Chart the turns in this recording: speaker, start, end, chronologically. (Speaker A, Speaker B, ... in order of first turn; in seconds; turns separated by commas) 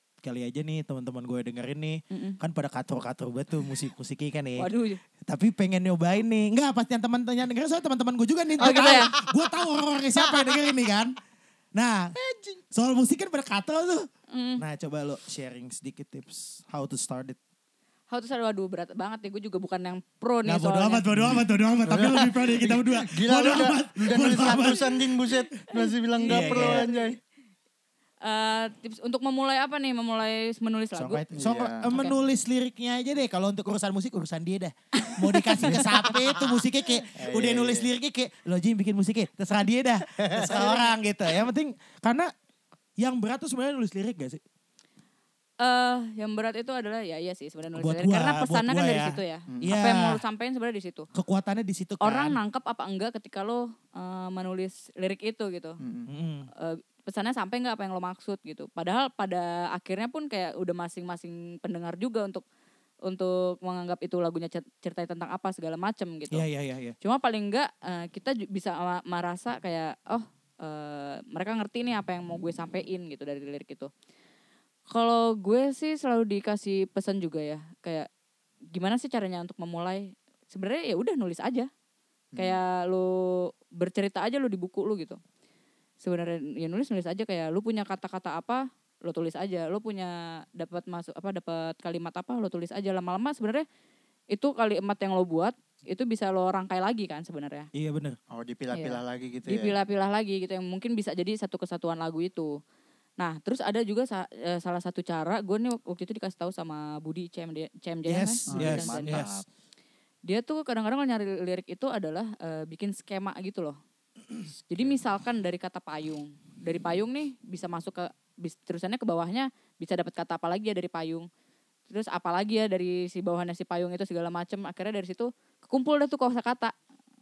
Speaker A: 0.2-4.7, Speaker B: 2.1-2.4, Speaker B: 4.6-5.0, Speaker A: 5.2-11.1, Speaker C: 8.6-9.0, Speaker B: 8.6-9.1, Speaker C: 10.2-10.7, Speaker A: 11.8-12.1, Speaker C: 12.2-12.6, Speaker A: 12.7-14.1, Speaker B: 14.3-14.6, Speaker A: 14.6-17.4, Speaker B: 18.1-21.0, Speaker A: 20.5-25.4, Speaker C: 21.1-27.2, Speaker B: 25.7-27.1, Speaker A: 26.3-26.9, Speaker B: 28.2-31.2, Speaker A: 31.0-42.3, Speaker C: 31.3-32.0, Speaker B: 35.0-36.1, Speaker C: 35.6-37.9, Speaker C: 40.2-40.8, Speaker A: 43.0-44.4, Speaker B: 45.6-51.1, Speaker A: 47.7-50.2, Speaker C: 49.5-49.8, Speaker A: 51.1-52.4, Speaker B: 52.0-55.8, Speaker C: 55.8-56.1, Speaker A: 56.1-56.5, Speaker B: 56.6-62.4, Speaker B: 63.1-66.5, Speaker A: 66.3-67.0, Speaker B: 67.0-73.9, Speaker B: 74.9-78.1, Speaker B: 78.7-81.7, Speaker C: 82.3-82.6, Speaker B: 82.4-85.2, Speaker B: 86.0-93.7, Speaker B: 94.3-97.7, Speaker A: 97.7-98.2, Speaker C: 98.3-99.7, Speaker B: 98.7-102.5, Speaker B: 103.2-109.2, Speaker A: 108.1-109.4, Speaker C: 108.5-109.5, Speaker B: 110.3-113.8, Speaker B: 114.7-121.3, Speaker B: 121.9-126.7